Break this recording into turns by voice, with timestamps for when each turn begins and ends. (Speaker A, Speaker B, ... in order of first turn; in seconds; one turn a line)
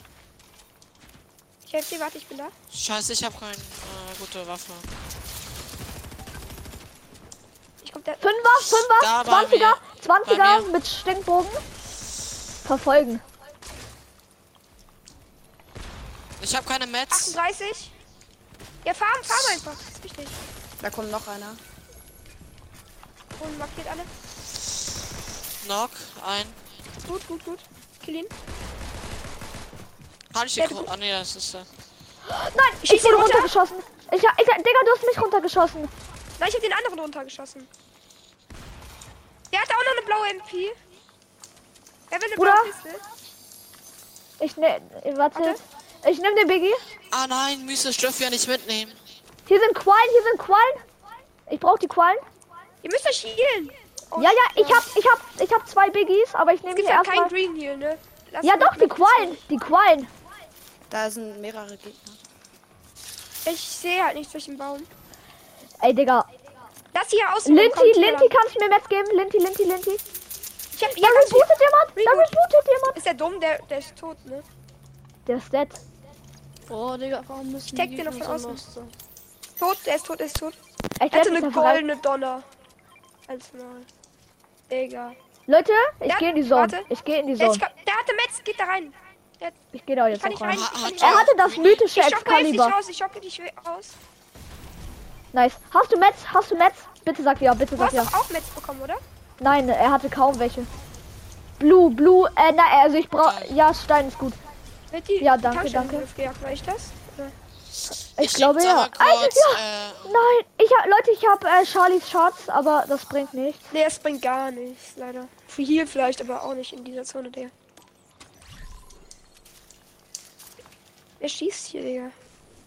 Speaker A: 1.6-2.5
Speaker B: 2.7-4.9
Speaker A: 7.8-8.2
Speaker C: 8.2-11.6
Speaker B: 8.7-10.7
Speaker C: 12.6-13.2
Speaker B: 16.4-17.4
Speaker A: 17.1-17.9
Speaker A: 18.8-20.4
Speaker B: 19.3-19.6
Speaker D: 20.8-21.6
Speaker A: 23.4-24.1
Speaker B: 25.6-26.6
Speaker A: 27.1-28.3
Speaker B: 30.3-31.7
Speaker A: 30.6-30.9
Speaker C: 32.3-35.9
Speaker A: 32.9-33.5
Speaker A: 36.4-37.7
Speaker A: 39.5-40.8
Speaker A: 42.1-43.0
Speaker C: 42.4-42.7
Speaker C: 44.4-46.8
Speaker B: 47.1-49.0
Speaker C: 49.5-50.8
Speaker C: 51.5-52.2
Speaker A: 52.8-54.9
Speaker C: 54.1-57.3
Speaker A: 56.8-59.4
Speaker C: 58.4-60.1
Speaker D: 60.9-62.2
Speaker A: 63.5-64.9
Speaker C: 65.8-66.3
Speaker A: 66.9-68.3
Speaker C: 67.5-70.0
Speaker A: 70.7-72.3
Speaker C: 70.9-73.0
Speaker A: 72.9-74.5
Speaker C: 75.3-75.8
Speaker E: 76.7-78.9
Speaker A: 77.8-78.6
Speaker A: 79.6-80.5
Speaker C: 81.0-81.8
Speaker A: 81.1-82.5
Speaker A: 83.3-83.9
Speaker A: 84.7-85.2
Speaker C: 85.5-87.6
Speaker A: 86.1-86.9
Speaker A: 87.4-89.5
Speaker C: 89.7-92.8
Speaker A: 90.1-94.0
Speaker B: 90.5-91.9
Speaker C: 95.3-98.1
Speaker A: 97.8-99.0
Speaker C: 99.4-100.7
Speaker C: 101.6-104.4
Speaker B: 103.2-103.5
Speaker A: 104.9-107.3
Speaker C: 105.2-106.1
Speaker B: 108.2-110.3
Speaker C: 108.2-113.6
Speaker A: 113.7-117.5
Speaker A: 121.2-122.1